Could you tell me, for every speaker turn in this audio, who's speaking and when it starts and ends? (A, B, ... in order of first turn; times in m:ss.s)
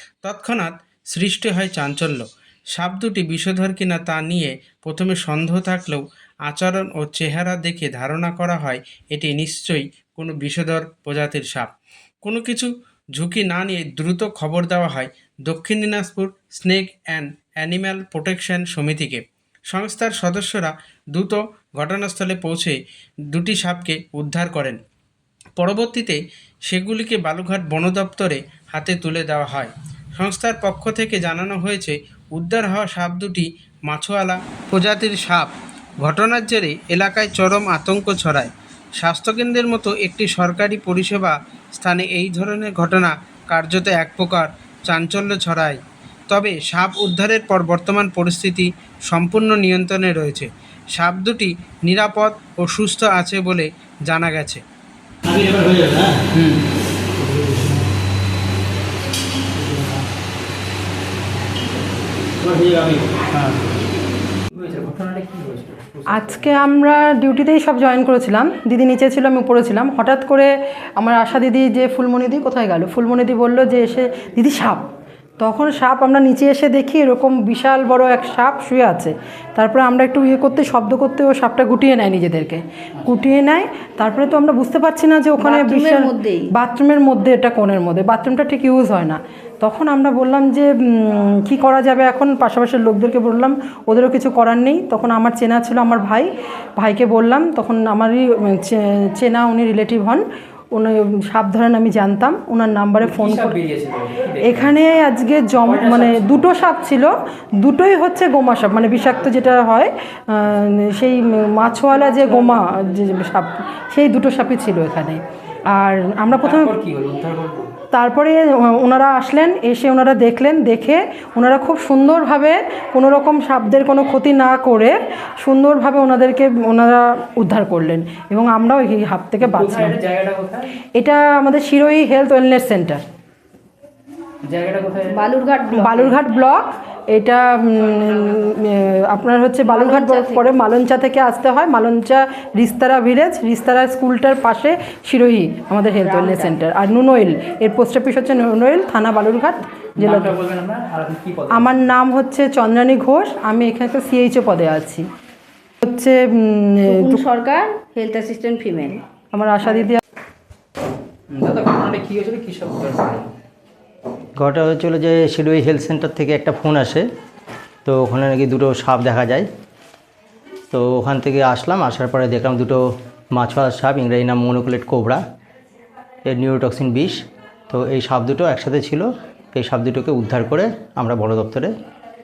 0:00.2-0:11.7 A
0:12.2-0:22.8 A
0:23.3-0:24.8 A
0:25.6-0:45.8 A
0:46.3-0:54.6 A
0:55.2-0:56.2 B
0:56.3-0:56.6 C
0:57.3-0:57.6 B
0:59.6-0:59.9 C
1:02.4-1:03.1 B
1:03.3-1:03.6 C
1:04.6-1:06.6 C
1:06.1-1:14.8 D
1:15.4-1:43.5 D
1:25.4-1:26.5 E
1:43.0-1:44.7 C
1:44.4-1:56.7 D
1:45.6-1:46.5 C
1:52.0-1:52.6 E
1:56.3-1:57.7 C
1:57.9-2:10.0 D
2:09.4-2:10.8 C
2:10.9-2:13.0 D
2:14.4-2:15.3 C
2:15.1-2:16.2 E
2:15.7-2:30.4 D
2:19.7-2:20.6 E
2:26.0-2:26.6 E
2:30.0-2:31.8 C
2:31.5-2:35.0 D
2:35.8-2:37.2 D
2:36.8-2:39.0 E
2:39.3-2:40.0 D
2:41.3-2:43.3 C
2:44.4-2:47.0 B
2:47.8-2:49.5 B
2:50.7-2:52.8 B
2:53.3-2:55.2 B
2:56.2-3:01.7 B